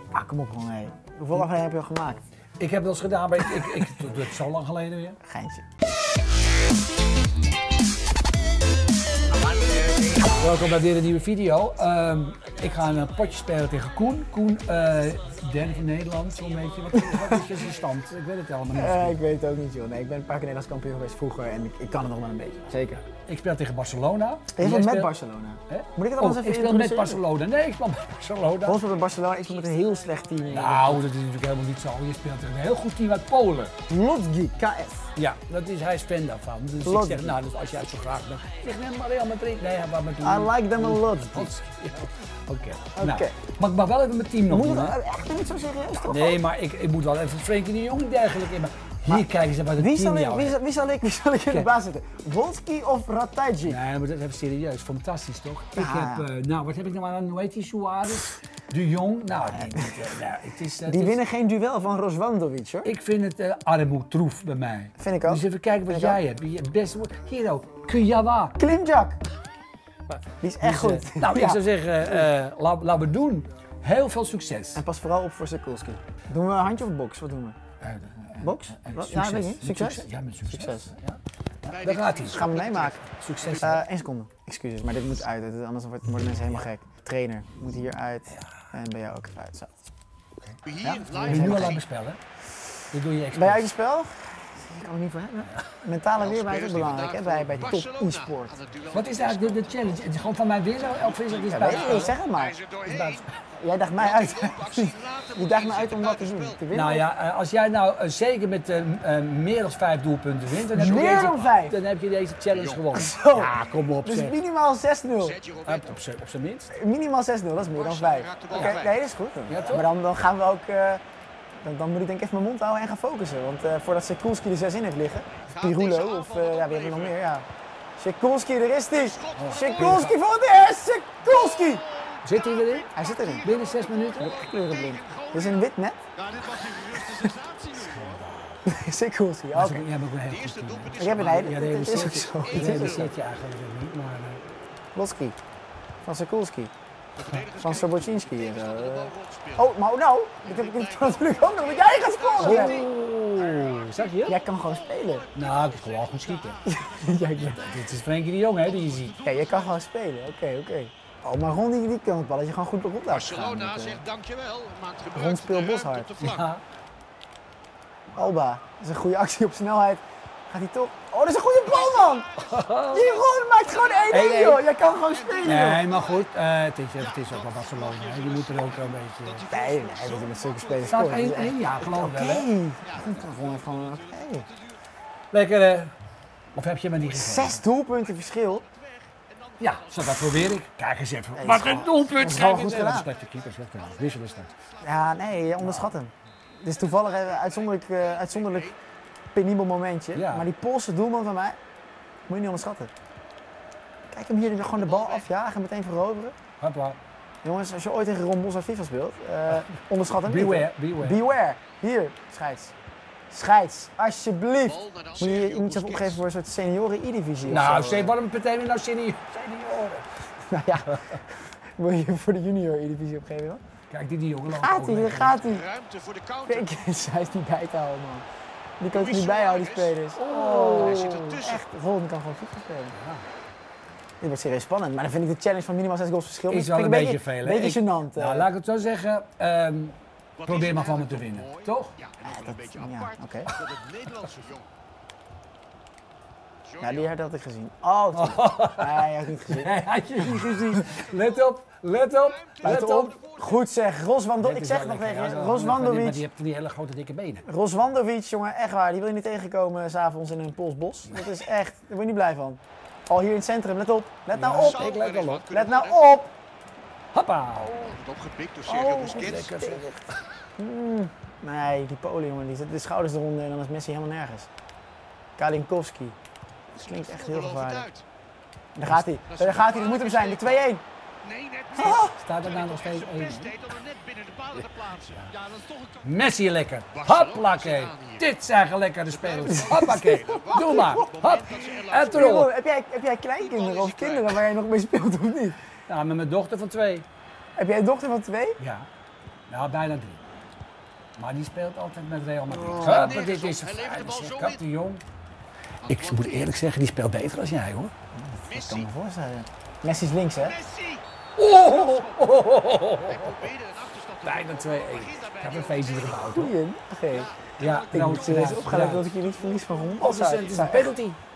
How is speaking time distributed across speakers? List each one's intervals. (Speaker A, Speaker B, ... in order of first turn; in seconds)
Speaker A: 0.1-2.2, 5.2-5.6, 16.9-17.4, 18.7-23.0, 24.5-27.2, 28.6-31.0, 33.9-35.1, 36.8-37.4, 40.2-41.5, 43.0-43.4, 44.5-46.4, 49.1-53.8, 55.7-56.3, 59.4-60.2, 60.8-62.9, 65.0-66.2, 68.6-69.2, 70.4-72.3, 74.7-77.6, 78.4-80.9, 82.2-89.8, 90.8-91.8, 93.3-98.6, 101.5-102.6, 103.5-107.1, 110.6-111.8, 112.9-115.4, 116.7-121.0, 121.6-131.8, 132.9-133.5, 134.1-136.0, 136.9-137.3, 138.6-139.9, 141.0-143.1, 144.9-145.4, 146.0-146.7, 147.5-152.9, 154.2-155.2, 156.6-157.8, 159.2-164.0, 165.1-166.1, 168.1-172.3, 172.9-175.8, 179.5-184.5, 187.1-188.6, 191.3-193.1, 194.8-196.1, 196.6-198.7, 199.3-201.6, 202.3-202.9, 204.1-206.3, 207.4-212.7, 213.3-218.2, 220.5-223.6, 224.5-225.7, 226.4-228.2, 228.8-232.9, 234.2-238.5, 242.2-243.5, 246.8-250.8, 252.6-256.2, 257.4-266.3, 268.6-269.9, 270.6-274.5, 275.4-276.1, 276.8-277.9, 278.7-280.8, 281.7-282.1, 289.5-291.1, 292.1-295.6, 297.6-298.6, 302.5-303.2, 308.1-310.6, 316.2-317.3, 317.9-320.9
Speaker B: 2.6-5.2, 10.3-19.2, 23.3-25.1, 25.7-28.8, 30.5-33.7, 35.1-45.0, 46.0-50.6, 53.7-61.2, 62.8-68.6, 70.1-74.8, 77.8-82.5, 83.0-83.8, 90.5-92.2, 92.9-93.7, 98.9-102.1, 102.8-103.3, 106.7-114.4, 115.6-116.7, 118.5-118.8, 119.5-119.9, 129.3-130.2, 132.2-132.9, 133.4-134.4, 137.8-138.6, 139.5-144.4, 152.4-154.4, 155.3-156.6, 157.5-159.2, 166.2-166.6, 172.4-173.1, 174.1-174.6, 175.4-179.5, 180.8-182.5, 185.3-185.9, 186.5-187.6, 189.6-194.5, 195.6-195.9, 200.1-200.5, 206.6-207.0, 210.2-211.2, 217.4-220.3, 220.9-221.1, 223.9-225.4, 230.2-231.3, 232.9-233.2, 236.5-242.0, 248.1-253.2, 254.4-257.4, 264.3-265.4, 267.1-267.8, 269.1-270.0, 281.8-283.6, 285.0-285.3, 286.0-292.5, 295.9-297.1, 298.6-298.9, 299.5-300.2, 301.2-305.0, 305.9-307.9, 311.4-313.5, 314.2-316.5, 317.6-319.1, 320.0-321.2
Speaker C: 81.7-83.0, 90.7-91.8, 96.2-100.1, 101.0-103.3, 104.0-106.6, 112.5-112.8, 115.2-116.0, 117.8-118.9, 125.5-127.1, 128.9-130.0, 131.2-135.6, 136.2-138.2, 140.3-142.9, 147.2-149.7, 150.4-158.0, 158.6-159.8, 163.1-166.5, 171.7-172.3, 173.7-174.2, 175.1-176.3, 177.0-181.0, 182.8-184.4, 188.3-190.5, 193.3-195.2, 196.9-198.8, 204.6-205.2, 214.7-216.2, 225.4-226.7, 228.9-229.9, 230.7-231.6, 240.4-244.7, 246.7-247.1, 252.3-253.6, 264.5-266.1, 267.7-269.6, 276.8-278.0, 279.2-280.6, 281.2-285.9, 286.9-288.2, 289.1-292.3, 293.4-294.4, 302.7-304.6, 305.8-306.5, 308.5-308.9, 310.4-311.0, 311.5-312.4, 312.9-316.3, 317.1-318.6